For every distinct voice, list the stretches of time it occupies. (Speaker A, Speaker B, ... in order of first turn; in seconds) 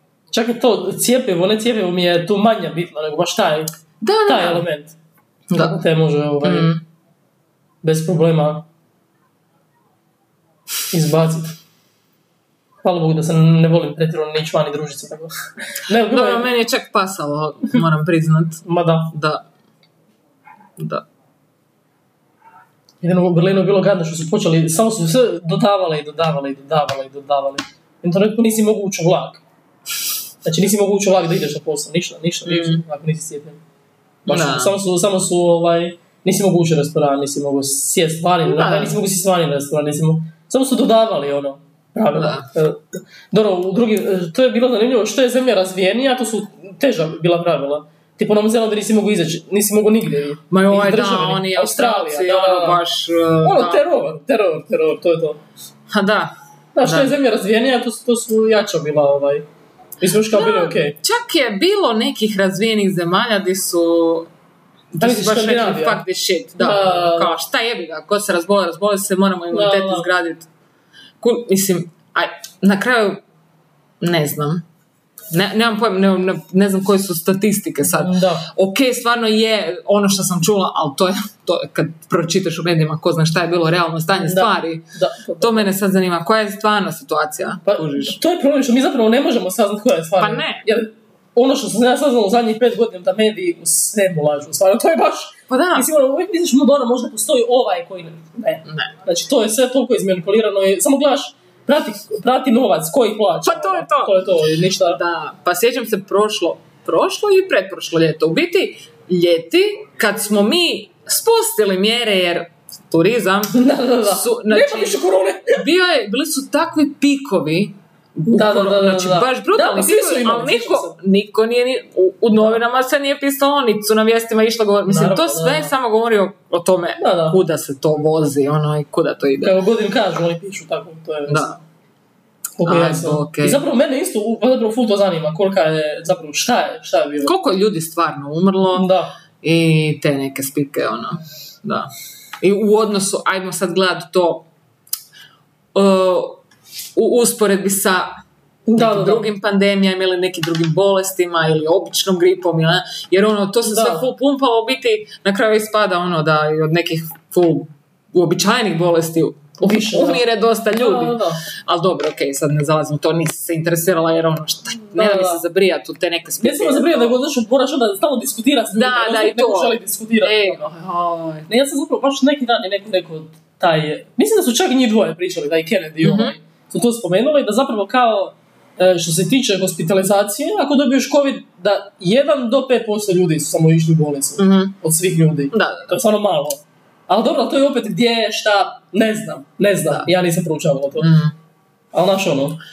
Speaker A: 0.3-3.7, 4.3-5.0, 5.5-6.7, 7.8-8.7, 10.9-11.6, 12.8-16.5, 18.6-19.1, 23.0-29.4, 30.4-33.6, 34.3-52.8, 53.4-55.4, 56.8-59.5, 60.0-61.0, 65.0-66.0, 66.6-67.4, 69.5-70.1, 77.9-78.5, 84.2-85.7, 87.7-105.0, 113.5-115.7, 118.3-121.0, 124.8-125.7, 127.0-127.4, 129.4-131.6, 132.6-137.3, 138.7-139.2, 148.7-149.3, 153.6-154.1, 159.6-161.4, 164.9-165.4, 166.4-170.7, 171.5-191.2, 191.9-192.6
Speaker B: 4.0-4.7, 5.5-5.8, 6.4-6.8, 16.1-19.5, 20.8-21.1, 32.5-32.8, 34.3-34.8, 38.5-39.0, 42.1-42.5, 50.5-53.9, 55.9-57.1, 60.3-64.3, 64.9-70.5, 71.2-73.2, 74.0-74.6, 75.3-84.9, 85.4-88.2, 90.2-90.7, 95.5-95.9, 98.7-98.9, 103.4-104.2, 104.9-129.6, 131.3-131.6, 132.6-133.6, 137.2-138.9, 139.4-144.5, 145.7-146.4, 146.9-148.2, 148.8-167.2, 168.7-171.5, 176.0-176.3, 184.4-184.8, 185.5-185.9, 191.0-191.3